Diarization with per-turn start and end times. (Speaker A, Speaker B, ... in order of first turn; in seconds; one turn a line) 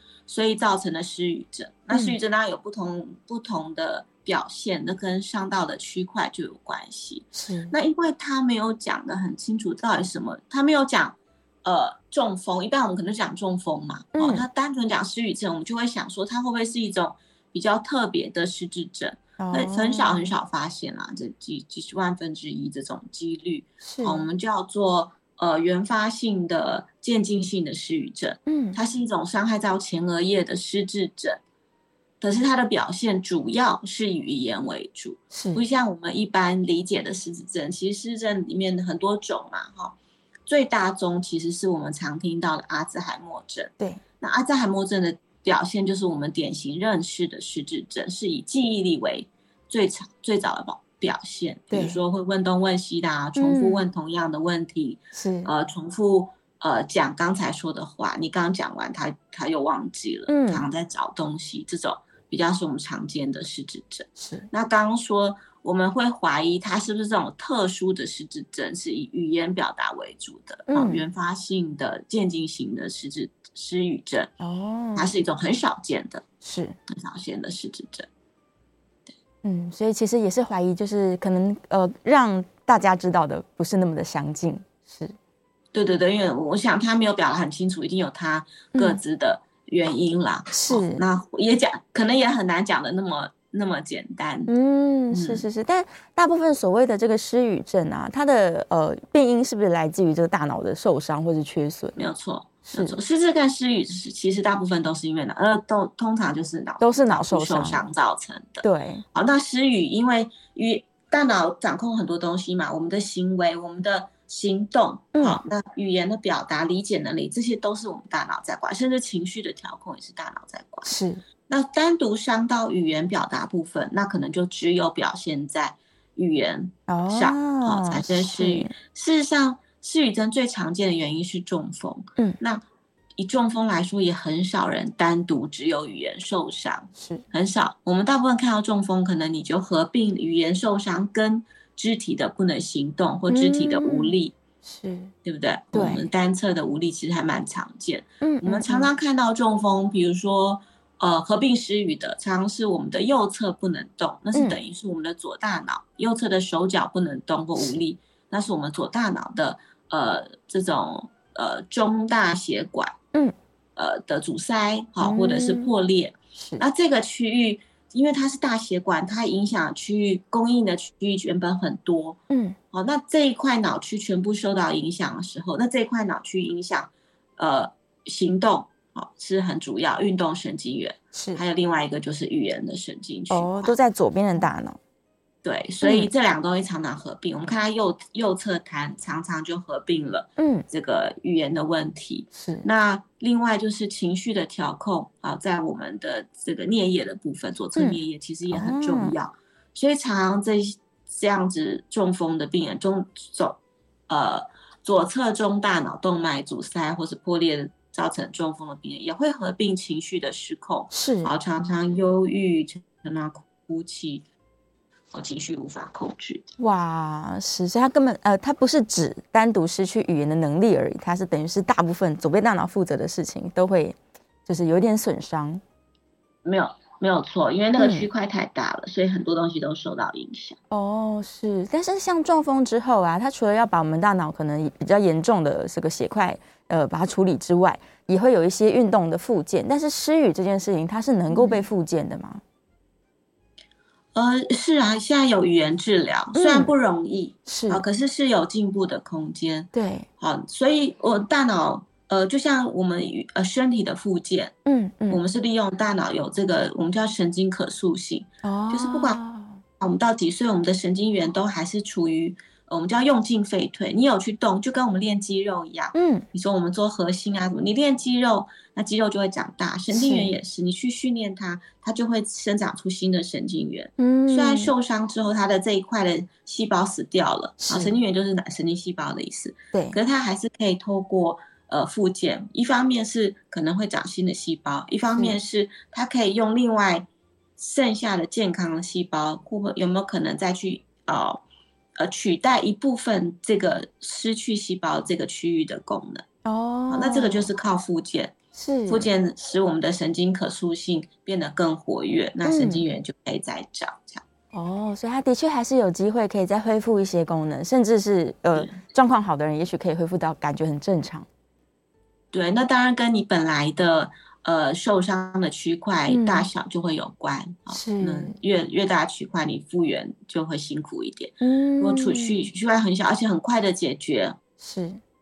Speaker A: 0.3-31.4
Speaker B: 1.9-2.1
Speaker B: 7.3-7.7
Speaker B: 14.1-14.4
Speaker B: 19.4-20.3
Speaker B: 23.8-24.2
Speaker B: 28.5-28.8
Speaker A: 32.2-40.0
Speaker B: 35.3-35.6
Speaker A: 40.5-74.3
Speaker B: 51.7-52.0
Speaker B: 53.4-53.8
Speaker B: 55.1-55.5
Speaker B: 60.3-60.6
Speaker B: 64.2-64.5
Speaker B: 70.7-71.0
Speaker B: 74.4-75.1
Speaker A: 75.0-76.2
Speaker B: 76.4-76.8
Speaker A: 76.9-78.1
Speaker B: 79.4-85.1
Speaker A: 85.7-94.5
Speaker B: 88.7-89.0
Speaker B: 90.5-91.0
Speaker B: 94.5-102.0
Speaker A: 95.1-95.5
Speaker A: 102.0-120.9
Speaker B: 102.7-103.0
Speaker B: 106.8-107.8
Speaker B: 108.6-109.0
Speaker B: 115.1-115.4
Speaker B: 120.8-121.2
Speaker A: 121.5-132.6
Speaker B: 126.9-128.7
Speaker A: 133.2-144.3
Speaker B: 136.9-137.2
Speaker B: 143.3-144.1
Speaker B: 144.6-145.1
Speaker A: 145.2-162.9
Speaker B: 145.7-146.1
Speaker B: 148.2-148.9
Speaker A: 163.8-172.2
Speaker B: 165.0-165.7
Speaker B: 166.4-166.6
Speaker B: 172.3-172.6
Speaker A: 172.7-183.8
Speaker B: 181.1-181.4
Speaker B: 183.3-184.8
Speaker A: 185.4-203.6
Speaker B: 185.8-186.1
Speaker B: 190.4-190.6
Speaker B: 192.3-192.7
Speaker B: 197.8-199.1
Speaker A: 204.1-214.2
Speaker B: 210.9-211.3
Speaker A: 215.1-216.4
Speaker B: 216.6-225.6
Speaker A: 226.4-230.6
Speaker B: 227.8-228.1
Speaker B: 230.7-242.4
Speaker A: 241.3-241.6
Speaker A: 244.1-254.5
Speaker B: 246.3-246.7
Speaker B: 247.5-247.8
Speaker B: 249.7-250.1
Speaker B: 254.7-255.2
Speaker A: 255.1-259.2
Speaker B: 258.4-259.6
Speaker A: 259.8-291.4
Speaker B: 265.9-266.2
Speaker B: 269.9-270.3
Speaker B: 274.0-274.7
Speaker B: 277.6-277.9
Speaker B: 279.7-280.0
Speaker A: 292.0-296.2
Speaker B: 296.4-297.5
Speaker A: 296.9-298.3
Speaker B: 298.5-299.1
Speaker A: 298.9-304.2
Speaker B: 302.4-302.8
Speaker B: 304.5-311.3
Speaker A: 312.3-324.4
Speaker B: 316.1-316.5
Speaker B: 317.7-318.4
Speaker B: 321.4-322.5
Speaker B: 324.6-325.0